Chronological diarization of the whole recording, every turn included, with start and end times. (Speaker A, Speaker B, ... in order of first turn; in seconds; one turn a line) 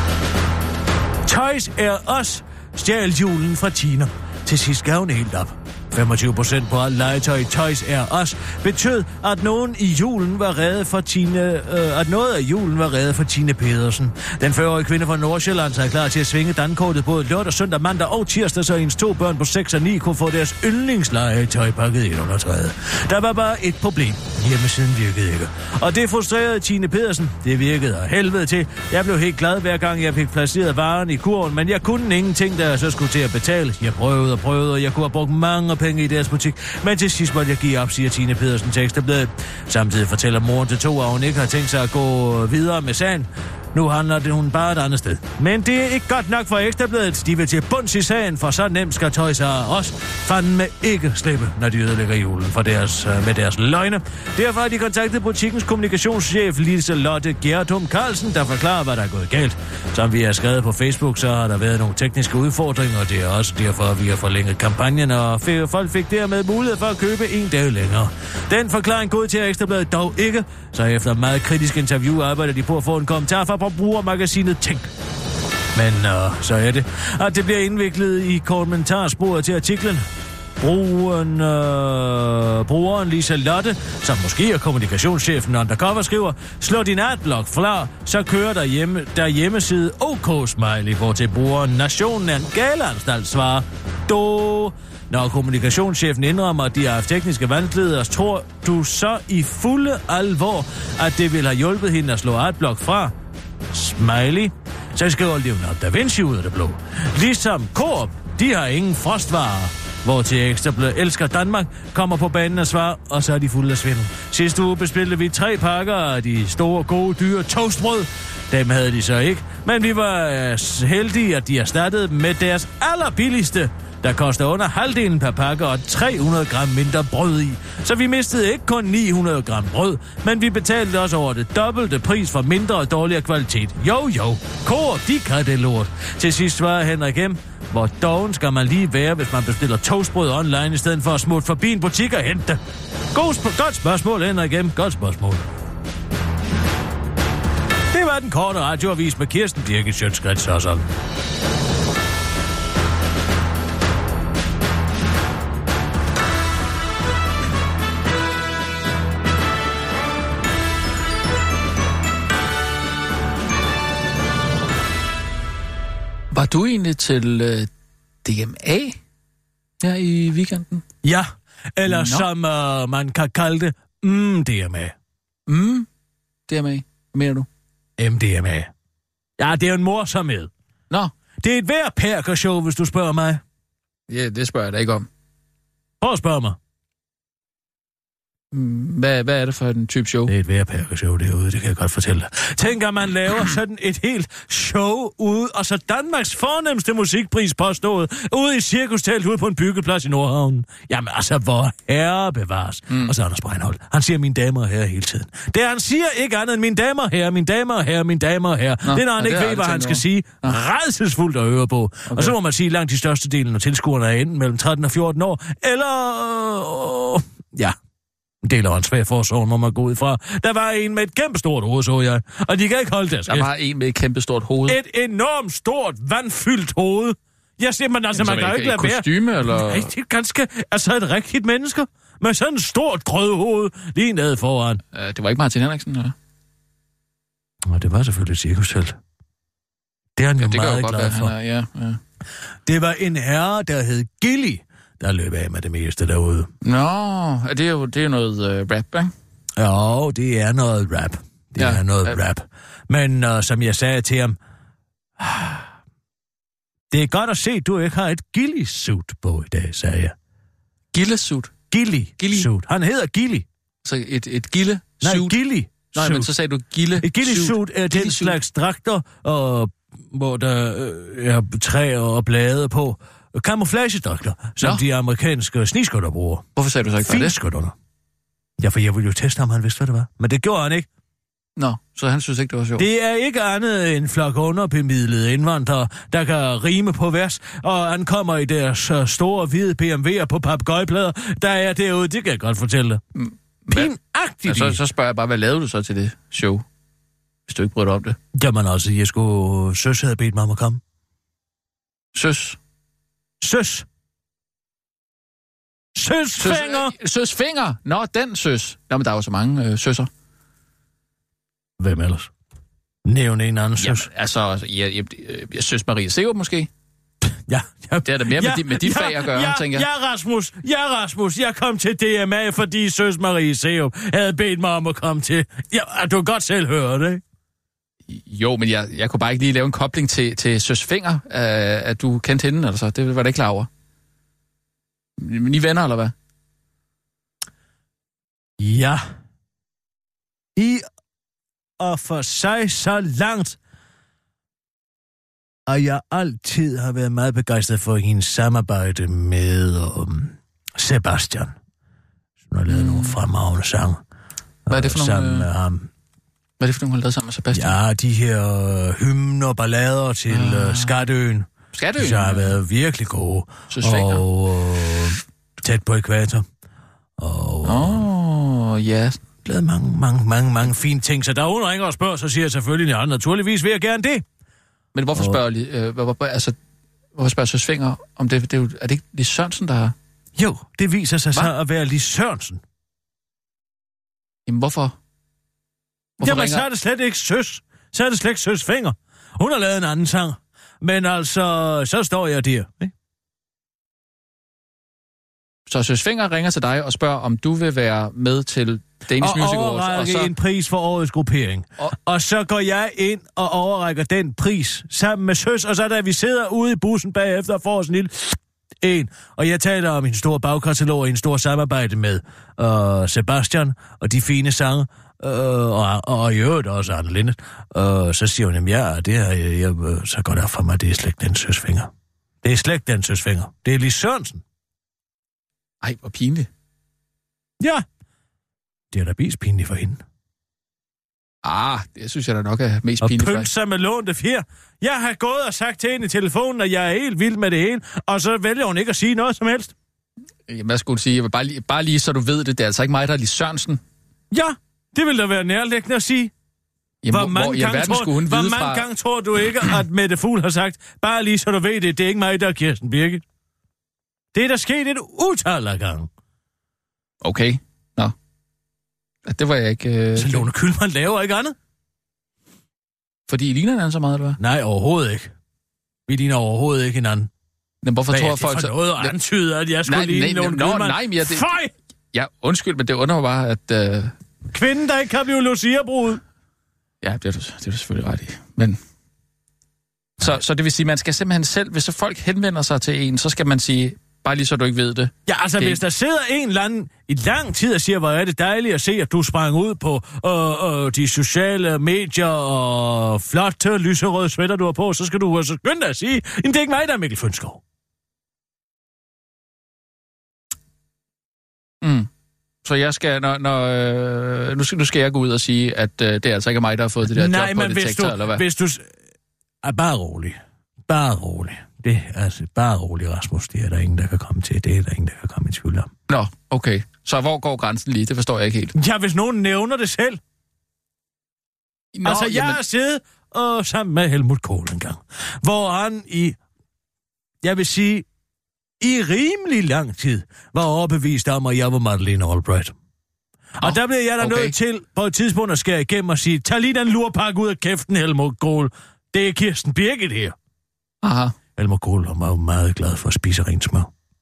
Speaker A: 1.2-74.9
Speaker A: 75.7-80.0
Speaker A: 80.6-103.1
Speaker A: 103.7-142.6
Speaker A: 143.1-145.4
Speaker A: 147.9-150.9
Speaker B: 166.3-167.7
Speaker B: 168.2-169.0
Speaker B: 169.8-170.8
Speaker A: 171.0-174.9
Speaker B: 171.9-172.3
Speaker B: 175.5-175.9
Speaker B: 176.5-177.5
Speaker A: 178.0-178.7
Speaker A: 179.4-180.5
Speaker A: 181.4-183.4
Speaker B: 184.1-185.1
Speaker A: 186.0-186.6
Speaker B: 188.5-190.3
Speaker A: 190.3-217.7
Speaker B: 208.8-210.6
Speaker B: 212.1-212.3
Speaker A: 218.4-223.5
Speaker B: 223.3-224.8
Speaker A: 224.7-234.8
Speaker B: 228.2-229.9
Speaker B: 234.9-236.1
Speaker A: 237.6-239.0
Speaker A: 240.2-241.3
Speaker B: 240.4-242.0
Speaker A: 242.6-246.5
Speaker B: 246.6-249.1
Speaker A: 249.6-254.4
Speaker B: 251.6-252.2
Speaker A: 255.2-255.6
Speaker A: 256.9-260.1
Speaker B: 260.9-261.5
Speaker A: 261.7-263.4
Speaker B: 262.2-262.5
Speaker B: 263.8-265.4
Speaker A: 265.0-266.3
Speaker B: 265.9-268.4
Speaker A: 267.0-276.4
Speaker B: 276.6-277.3
Speaker A: 277.0-277.7
Speaker A: 278.6-280.9
Speaker B: 281.6-282.9
Speaker A: 282.8-293.0
Speaker B: 293.1-293.9
Speaker A: 293.7-294.8
Speaker B: 294.4-296.6
Speaker B: 297.5-298.2
Speaker A: 298.3-300.8
Speaker B: 302.1-302.6
Speaker A: 303.4-303.9
Speaker A: 305.9-306.9
Speaker B: 306.4-310.1
Speaker A: 311.8-312.3
Speaker A: 313.1-314.1
Speaker B: 313.8-316.7
Speaker A: 317.5-327.2
Speaker B: 318.0-319.9
Speaker B: 328.1-333.7
Speaker B: 335.2-336.1
Speaker A: 338.6-339.1
Speaker A: 340.6-340.9
Speaker A: 341.8-343.6
Speaker A: 345.7-351.6
Speaker A: 352.4-354.0
Speaker B: 352.7-353.2
Speaker A: 354.6-355.9
Speaker B: 354.7-355.5
Speaker B: 356.6-357.8
Speaker A: 357.5-366.4
Speaker B: 360.3-361.0
Speaker B: 361.7-362.6
Speaker B: 363.7-364.2
Speaker A: 367.2-368.1
Speaker B: 367.6-369.2
Speaker A: 369.4-374.2
Speaker B: 374.9-376.6
Speaker A: 375.1-375.4
Speaker B: 377.1-379.9
Speaker A: 380.4-382.6
Speaker B: 384.5-384.9
Speaker B: 386.2-386.7
Speaker A: 386.2-392.9
Speaker B: 395.7-400.3
Speaker A: 399.2-421.9
Speaker A: 422.4-424.4
Speaker B: 425.8-426.5
Speaker A: 427.6-427.8
Speaker A: 428.9-430.0
Speaker B: 431.4-433.5
Speaker A: 433.0-439.7
Speaker B: 440.5-443.8
Speaker A: 444.3-446.3
Speaker B: 447.0-448.9
Speaker A: 447.1-453.2
Speaker A: 454.3-456.1
Speaker B: 457.2-458.1
Speaker B: 459.2-460.5
Speaker A: 460.1-461.6
Speaker B: 463.3-464.4
Speaker A: 464.4-465.3
Speaker A: 466.1-467.3
Speaker B: 467.8-469.1
Speaker A: 468.1-471.7
Speaker B: 469.8-471.5
Speaker B: 472.1-474.1
Speaker A: 474.5-476.2
Speaker B: 477.0-478.8
Speaker B: 480.2-485.8
Speaker A: 485.2-497.6
Speaker B: 501.8-502.1
Speaker B: 502.6-508.4
Speaker A: 507.1-508.9
Speaker A: 509.6-515.9
Speaker B: 516.1-518.7
Speaker A: 518.7-520.2
Speaker B: 521.9-522.6
Speaker A: 522.0-526.4
Speaker A: 527.4-528.1
Speaker A: 528.8-532.8
Speaker A: 533.5-540.4
Speaker B: 533.6-534.5
Speaker B: 541.0-541.3
Speaker A: 541.5-543.9